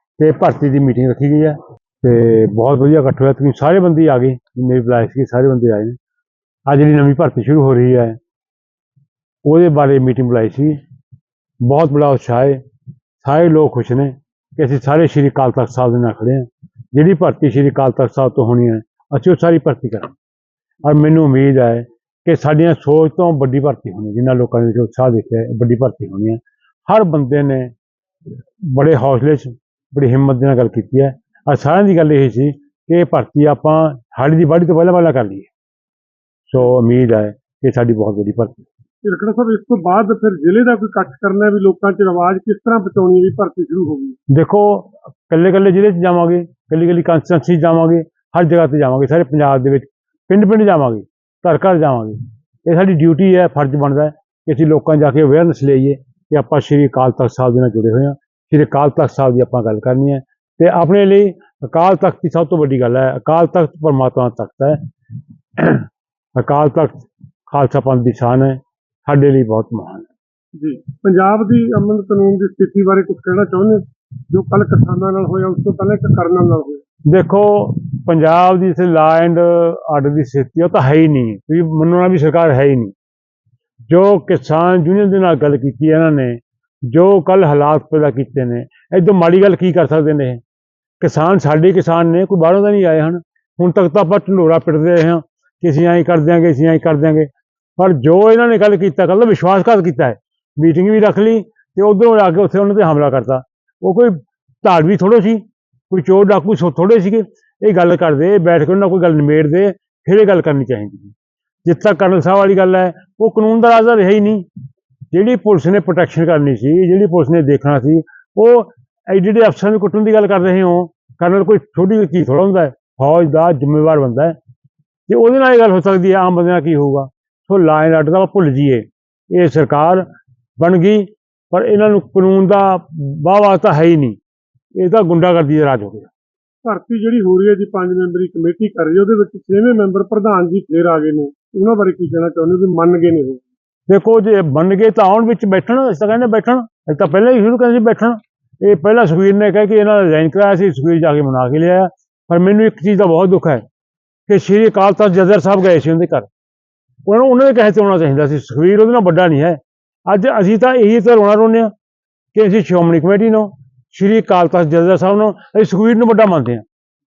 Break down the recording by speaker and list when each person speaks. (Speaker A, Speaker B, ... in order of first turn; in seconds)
Speaker A: 0.2-6.0, 6.7-8.2, 9.4-10.8, 11.6-12.6, 13.2-20.1, 20.9-27.7, 28.6-35.5, 36.5-38.7, 44.3-64.8, 65.6-70.1, 77.1-82.9, 83.9-90.4, 91.0-114.5, 115.1-124.4, 125.1-130.1, 130.6-134.2, 134.8-136.1, 143.9-153.6, 154.3-156.3, 157.1-161.7, 162.3-166.7
Speaker B: 39.0-44.2, 70.6-76.8, 136.7-143.4